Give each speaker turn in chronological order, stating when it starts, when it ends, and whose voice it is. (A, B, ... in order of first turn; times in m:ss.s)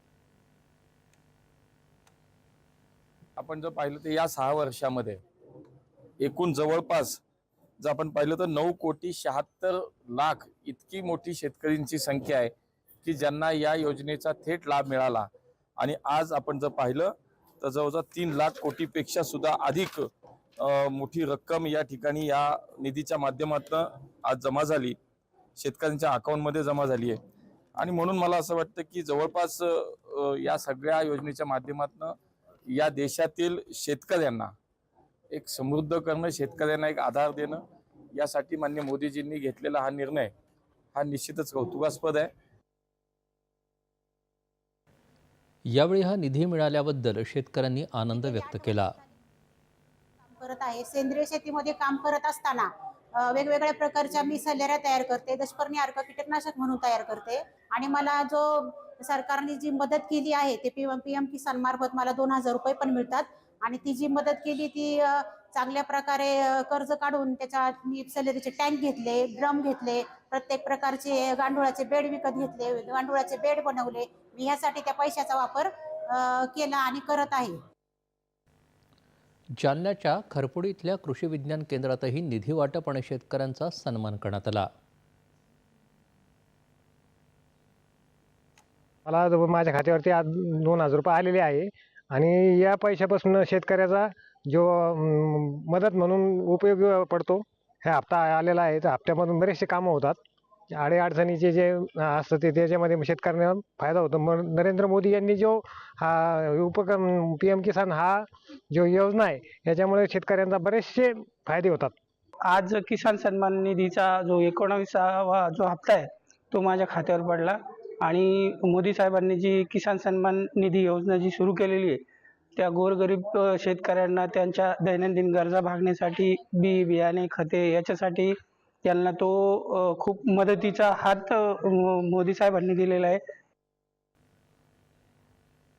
0:03.4-0:05.2 A
0:06.2-0:07.2 A
0:07.8-0:12.5 A
0:13.0-0:20.0 A
0:20.6-0:25.0 A
0:25.6-0:27.2 A
0:27.8-0:32.2 A
0:32.7-0:34.5 A
0:35.3-0:37.6 A
0:38.1-0:40.3 A
0:40.9-0:42.3 A
0:45.7-0:48.9 B
0:48.2-0:49.0 C
0:50.2-1:17.6 C
1:19.6-1:24.7 B
1:29.0-1:40.2 D
1:40.7-1:51.9 D
1:52.4-2:02.0 E
2:02.6-2:13.2 E